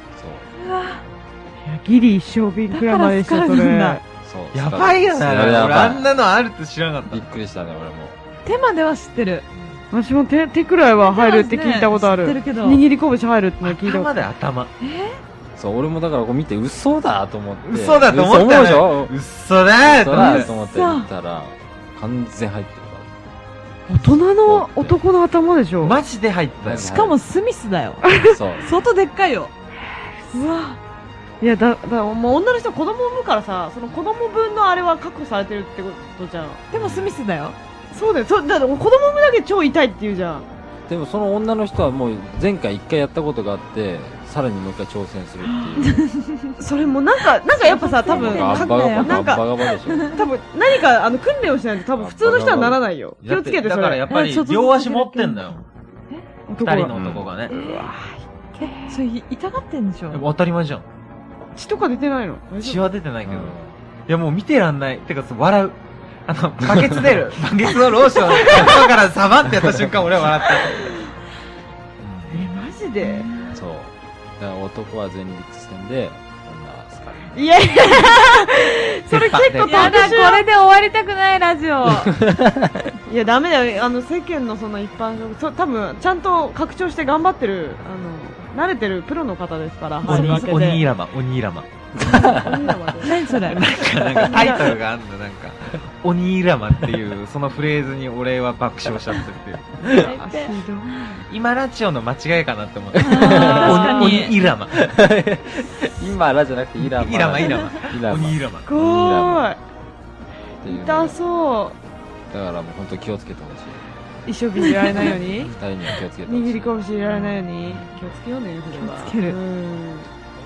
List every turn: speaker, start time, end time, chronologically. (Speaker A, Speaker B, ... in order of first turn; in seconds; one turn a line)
Speaker A: 0.1-0.5
Speaker B: 0.6-1.0
Speaker C: 1.6-4.0
Speaker B: 2.7-4.0
Speaker A: 4.2-6.1
Speaker D: 4.5-7.3
Speaker A: 7.1-8.2
Speaker B: 8.4-9.4
Speaker A: 9.5-9.8
Speaker C: 9.9-14.1
Speaker B: 11.0-12.8
Speaker D: 13.6-14.7
Speaker B: 14.8-15.2
Speaker A: 15.6-19.1
Speaker D: 17.6-20.5
Speaker A: 19.8-23.1
Speaker B: 20.1-21.1
Speaker C: 23.9-26.0
Speaker A: 24.4-25.0
Speaker D: 25.8-26.9
Speaker A: 26.6-27.2
Speaker B: 26.7-29.5
Speaker C: 28.1-28.3
Speaker A: 28.2-28.8
Speaker B: 30.3-30.8
Speaker C: 31.4-36.6
Speaker B: 36.7-37.5
Speaker A: 36.8-37.1
Speaker C: 37.9-40.5
Speaker A: 40.9-46.1
Speaker B: 45.8-46.6
Speaker C: 46.6-49.5
Speaker B: 47.5-50.2
Speaker A: 48.1-50.2
Speaker C: 50.0-54.0
Speaker A: 52.0-52.8
Speaker D: 53.2-55.6
Speaker B: 54.1-56.2
Speaker C: 56.5-56.9
Speaker D: 56.6-57.5
Speaker A: 56.9-57.3
Speaker C: 57.5-59.0
Speaker B: 57.5-57.9
Speaker B: 58.6-60.2
Speaker D: 60.1-60.8
Speaker C: 61.5-62.9
Speaker D: 62.6-63.5
Speaker A: 63.2-63.7
Speaker D: 64.1-71.1
Speaker C: 68.4-68.8
Speaker D: 72.0-72.5
Speaker C: 72.3-73.3
Speaker B: 73.0-73.6
Speaker A: 73.5-77.5
Speaker C: 77.3-80.5
Speaker D: 79.1-80.3
Speaker B: 79.6-82.1
Speaker A: 81.8-82.9
Speaker C: 83.1-90.8
Speaker B: 90.0-90.7
Speaker D: 90.0-91.7
Speaker A: 92.0-92.6
Speaker C: 92.0-93.5
Speaker B: 93.0-93.7
Speaker D: 93.4-100.1
Speaker C: 94.2-94.7
Speaker C: 99.8-101.3
Speaker B: 99.9-100.6
Speaker D: 101.2-104.9
Speaker B: 102.9-104.4
Speaker A: 103.0-109.5
Speaker D: 106.8-108.7
Speaker C: 108.7-109.6
Speaker A: 110.6-111.2
Speaker C: 110.6-111.8
Speaker A: 112.3-113.8
Speaker C: 114.2-115.5
Speaker A: 115.3-116.9
Speaker C: 116.2-120.1
Speaker D: 117.1-117.9
Speaker B: 118.7-119.4